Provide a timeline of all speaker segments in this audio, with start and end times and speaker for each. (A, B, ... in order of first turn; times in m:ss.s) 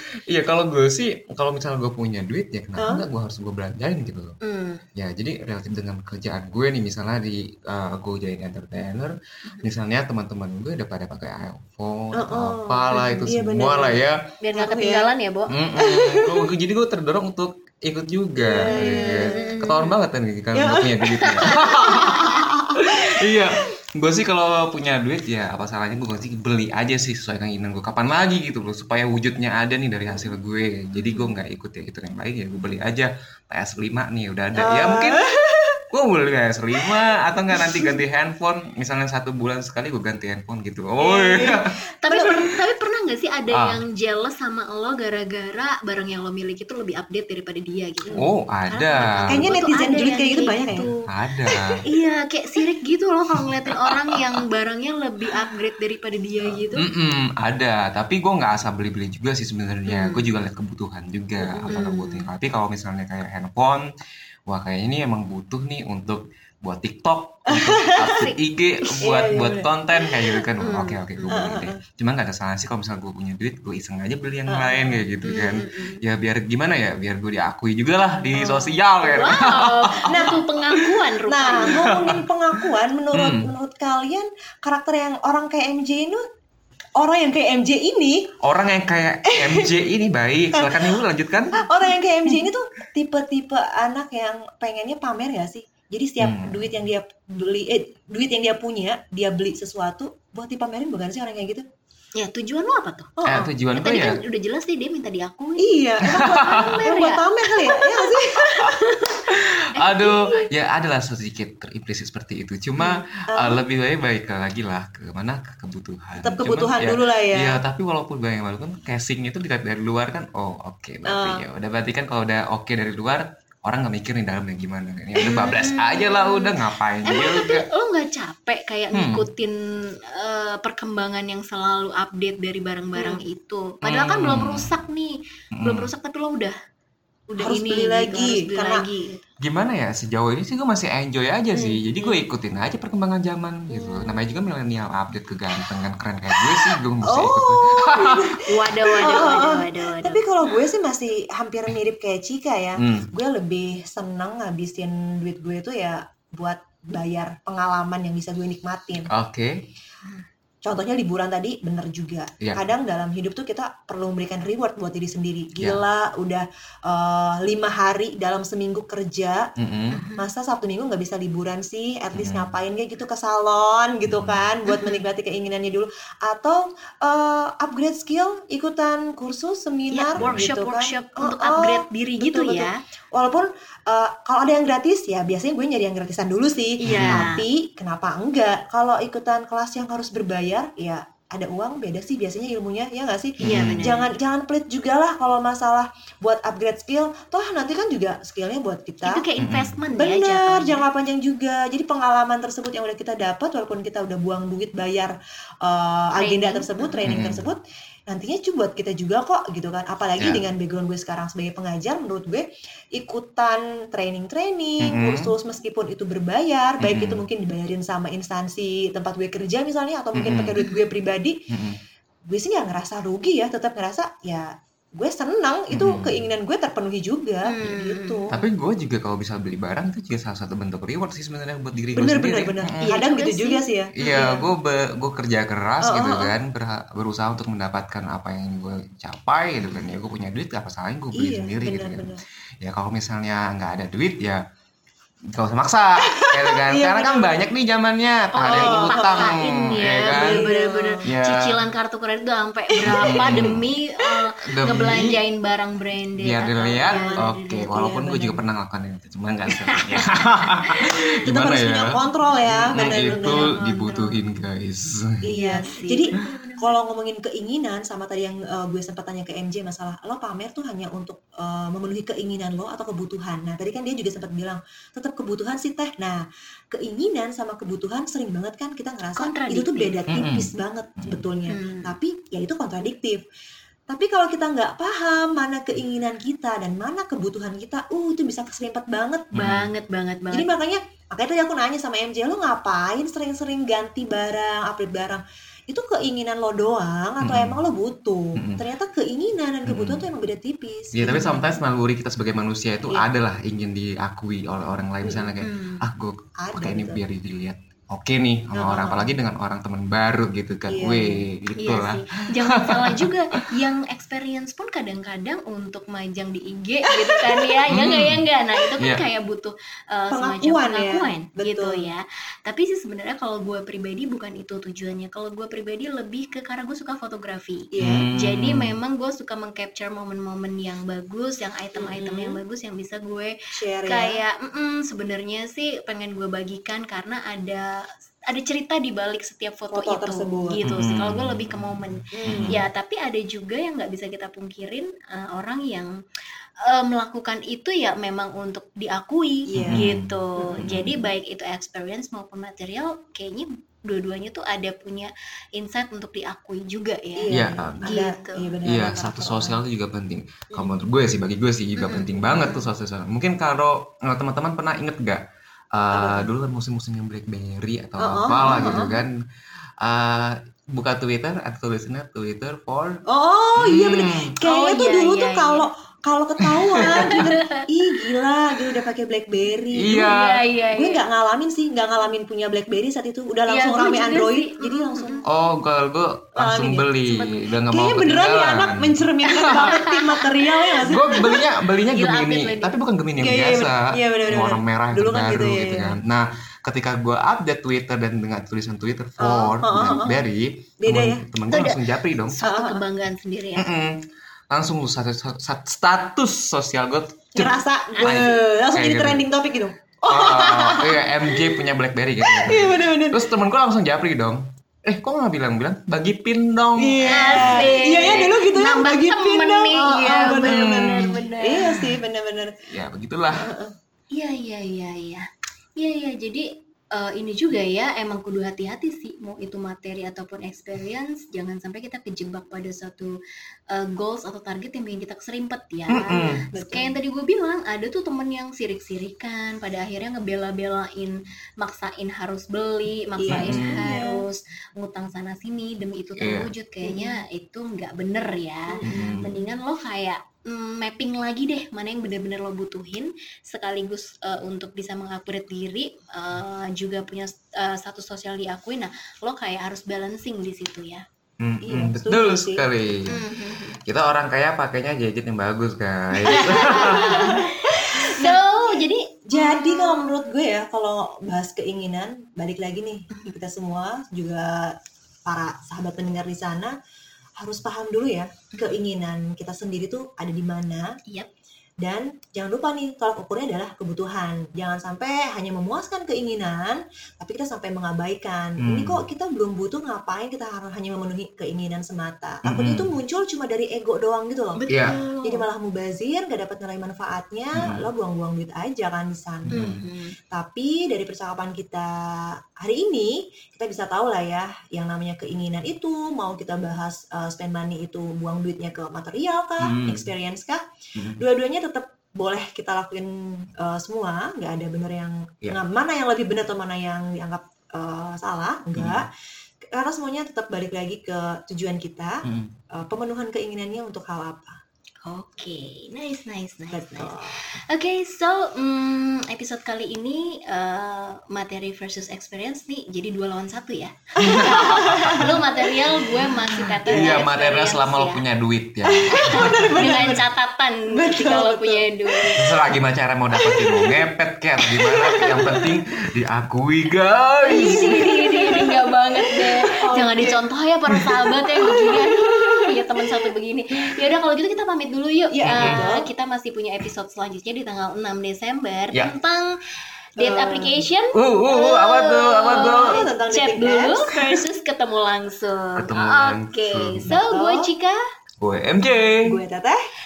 0:00.3-0:04.4 A
0:02.8-0:03.1 B
0:04.4-0:04.8 C
0:05.0-0:14.2 A
0:12.1-0:15.1 B
0:12.9-0:13.3 C
0:14.4-0:15.6 C
0:15.5-0:35.3 A
0:15.8-0:16.5 B
0:18.4-0:19.4 B
0:18.6-0:20.0 C
0:20.5-0:23.4 B
0:21.2-0:22.4 C
0:31.0-0:31.3 C
0:34.6-0:35.6 B
0:35.9-0:41.7 A
0:37.5-0:38.0 B
0:41.0-0:42.4 B
0:42.0-0:51.0 C
0:43.5-0:43.8 A
0:48.0-0:48.3 B
0:48.1-0:49.4 A
0:49.3-0:50.9 B
0:50.7-0:51.8 A
0:51.8-0:56.9 C
0:53.9-0:54.2 A
0:56.8-1:03.8 A
0:59.9-1:00.3 C
1:01.4-1:02.3 C
1:04.5-1:20.9 A
1:07.5-1:08.3 B
1:08.1-1:08.4 C
1:09.0-1:10.4 B
1:10.6-1:11.4 C
1:11.3-1:11.8 B
1:14.5-1:15.0 B
1:15.2-1:16.0 C
1:18.4-1:21.8 C
1:20.1-1:20.4 B
1:21.3-1:26.2 B
1:21.7-1:23.5 A
1:27.0-1:28.3 B
1:28.4-1:31.6 A
1:29.3-1:29.7 B
1:30.5-1:31.0 B
1:31.6-1:41.6 B
1:36.2-1:36.8 A
1:42.2-1:43.1 C
1:43.2-1:43.5 B
1:43.3-1:44.2 A
1:43.7-1:50.5 C
1:45.6-1:48.6 B
1:46.1-1:46.8 A
1:49.3-2:07.7 A
1:52.8-1:53.6 B
1:56.2-1:57.6 B
2:01.0-2:01.4 B
2:05.2-2:05.6 B
2:05.2-2:09.6 C
2:08.9-2:09.3 A
2:10.1-2:16.6 C
2:13.0-2:13.2 B
2:13.8-2:14.7 A
2:15.6-2:15.9 A
2:17.3-2:19.2 C
2:17.4-2:18.8 B
2:19.4-2:28.4 A
2:21.6-2:22.2 C
2:23.7-2:24.4 C
2:26.4-2:39.1 B
2:28.5-2:30.6 C
2:32.8-2:33.1 A
2:39.1-2:39.6 A
2:40.6-2:49.5 B
2:45.6-2:45.8 A
2:49.6-2:50.0 A
2:49.9-2:50.3 C
2:50.2-3:19.2 B
2:52.2-2:52.5 A
2:54.1-2:54.5 A
2:54.7-2:55.0 C
2:59.9-3:02.8 C
3:00.2-3:00.5 A
3:06.8-3:07.4 C
3:06.8-3:07.3 A
3:13.4-3:13.9 A
3:13.4-3:14.1 C
3:19.0-3:20.8 C
3:19.4-3:19.7 A
3:19.9-3:41.4 B
3:26.2-3:27.2 C
3:27.1-3:27.5 A
3:30.2-3:30.5 A
3:34.8-3:35.3 A
3:36.8-3:37.2 A
3:40.2-3:40.6 A
3:40.6-3:40.9 C
3:41.5-3:41.8 A
3:42.3-3:48.4 B
3:45.7-3:46.3 A
3:47.4-3:48.3 C
3:48.3-3:52.9 A
3:51.9-3:54.3 B
3:52.8-3:54.4 C
3:54.0-4:04.4 A
3:55.8-3:56.4 B
3:59.6-3:59.9 C
4:01.1-4:02.2 B
4:05.4-4:10.5 A
4:06.1-4:07.4 B
4:08.4-4:17.7 C
4:08.4-4:09.4 B
4:10.1-4:11.0 B
4:11.1-4:11.6 A
4:12.7-4:13.6 B
4:12.8-4:13.7 A
4:14.5-4:15.2 A
4:16.2-4:21.9 A
4:16.8-4:18.4 B
4:19.7-4:20.9 C
4:21.2-4:23.6 B
4:22.4-4:25.2 A
4:23.0-4:24.2 C
4:25.2-4:43.2 B
4:25.3-4:26.8 C
4:39.2-4:40.0 C
4:40.1-4:41.2 A
4:41.5-4:42.0 C
4:43.9-4:49.3 B
4:49.3-4:49.7 A
4:49.3-4:50.5 C
4:50.3-5:01.5 B
4:57.2-4:57.6 A
4:58.4-4:58.6 A
4:59.7-5:00.1 A
5:00.9-5:13.1 A
5:01.1-5:01.5 C
5:05.0-5:05.4 B
5:05.4-5:05.8 C
5:06.4-5:07.0 B
5:08.6-5:09.2 B
5:10.7-5:11.2 B
5:11.6-5:33.3 C
5:17.7-5:18.2 A
5:20.1-5:21.9 B
5:27.7-5:28.1 B
5:27.8-5:28.7 A
5:31.8-5:32.4 B
5:33.5-5:34.2 B
5:33.9-5:37.8 C
5:38.3-5:45.9 C
5:39.7-5:40.6 B
5:40.7-5:42.6 A
5:42.2-5:42.6 B
5:46.7-5:58.6 C
5:49.5-5:50.7 B
5:49.6-5:51.0 A
5:57.2-5:59.6 B
5:57.3-5:58.0 A
5:58.6-6:05.2 A
6:01.8-6:02.7 C
6:05.7-6:09.1 A
6:05.9-6:06.3 B
6:08.0-6:09.0 B
6:08.4-6:08.9 C
6:09.8-6:13.0 A
6:13.1-6:20.1 B
6:13.6-6:14.3 A
6:14.4-6:15.7 C
6:16.5-6:17.2 A
6:16.8-6:17.6 C
6:19.8-6:20.4 A
6:19.9-6:21.0 C
6:20.7-6:25.2 B
6:23.5-6:25.2 C
6:25.2-6:29.7 A
6:26.4-6:26.9 B
6:27.1-6:27.5 C
6:27.7-6:31.3 B
6:29.4-6:32.8 C
6:30.8-6:42.4 A
6:33.2-6:36.0 B
6:39.2-6:40.2 B
6:40.8-6:41.2 B
6:41.5-6:43.7 C
6:42.4-6:42.8 B
6:43.6-6:49.2 A
6:47.4-6:51.6 B
6:48.0-6:48.3 C
6:50.1-6:57.7 A
6:52.2-6:53.3 B
6:56.8-7:02.5 B
6:57.1-7:02.0 C
7:00.2-7:01.2 A
7:02.7-7:03.5 A
7:03.3-7:03.7 B
7:04.1-7:05.2 C
7:05.8-7:13.1 C
7:13.7-7:41.0 C
7:15.9-7:16.4 A
7:16.1-7:17.0 B
7:23.2-7:24.2 B
7:23.3-7:23.8 A
7:26.2-7:26.5 A
7:26.8-7:27.2 B
7:28.7-7:29.5 B
7:28.9-7:29.3 A
7:41.4-7:43.2 A
7:41.6-7:42.7 B
7:43.1-7:43.8 C
7:43.9-7:47.3 A
7:46.2-7:50.2 C
7:46.3-7:54.7 B
7:53.1-7:53.4 C
7:55.3-7:56.8 B
7:57.4-8:00.9 B
7:58.5-7:58.8 C
8:01.8-8:19.8 B
8:08.6-8:09.0 A
8:12.4-8:12.9 A
8:14.6-8:15.4 C
8:14.7-8:15.0 A
8:17.6-8:17.8 A
8:19.5-8:19.8 A
8:19.5-8:20.1 C
8:20.3-8:30.6 B
8:29.6-8:30.1 A
8:31.0-8:31.2 A
8:31.2-8:39.1 B
8:38.8-8:39.0 A
8:39.7-8:42.2 B
8:42.3-8:42.5 A
8:42.7-8:44.6 B
8:45.0-8:47.2 C
8:46.7-8:47.4 B
8:47.7-8:58.2 C
8:54.2-8:55.3 B
8:54.2-8:55.4 A
8:56.6-8:57.2 B
8:56.8-8:59.8 A
8:58.8-9:00.2 B
8:59.2-9:02.4 C
9:00.9-9:02.7 B
9:02.4-9:08.0 A
9:03.3-9:04.1 B
9:04.8-9:05.8 B
9:07.5-9:19.5 C
9:07.6-9:13.3 B
9:15.3-9:16.1 B
9:15.5-9:15.8 A
9:20.2-9:20.8 B
9:20.2-9:28.0 C
9:21.1-9:23.0 A
9:22.7-9:24.4 B
9:25.8-9:27.2 A
9:27.3-9:27.7 B
9:28.4-9:29.4 A
9:29.2-9:29.8 B